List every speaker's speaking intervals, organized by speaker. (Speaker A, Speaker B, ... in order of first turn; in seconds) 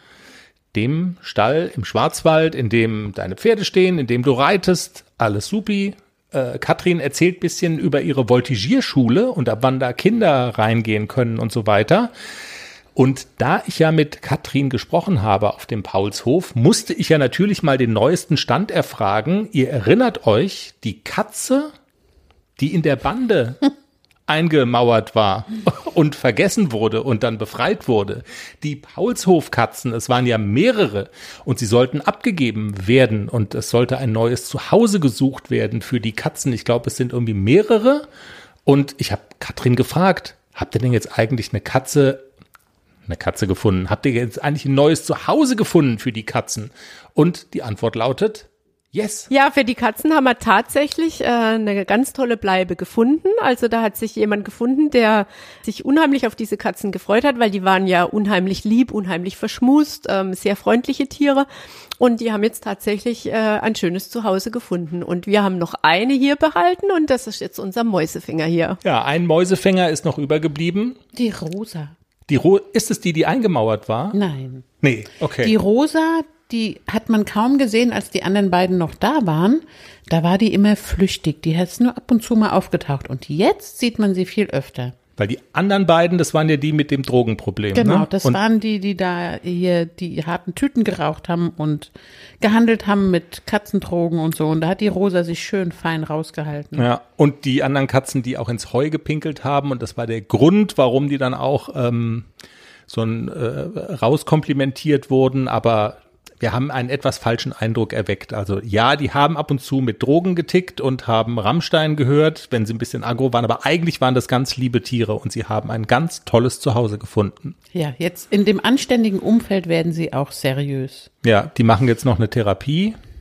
Speaker A: 0.7-12.1, 12.9-21.7, 22.6-23.6, 24.3-38.1, 38.6-42.2, 43.1-49.3, 68.8-71.0, 72.3-74.2, 74.8-75.5, 85.2-88.4, 96.7-102.3, 102.9-117.5, 121.2-123.0
Speaker B: 49.3-61.5, 62.0-68.8
Speaker C: 71.1-71.9, 74.1-74.7, 75.4-84.9, 87.7-96.9, 117.7-121.1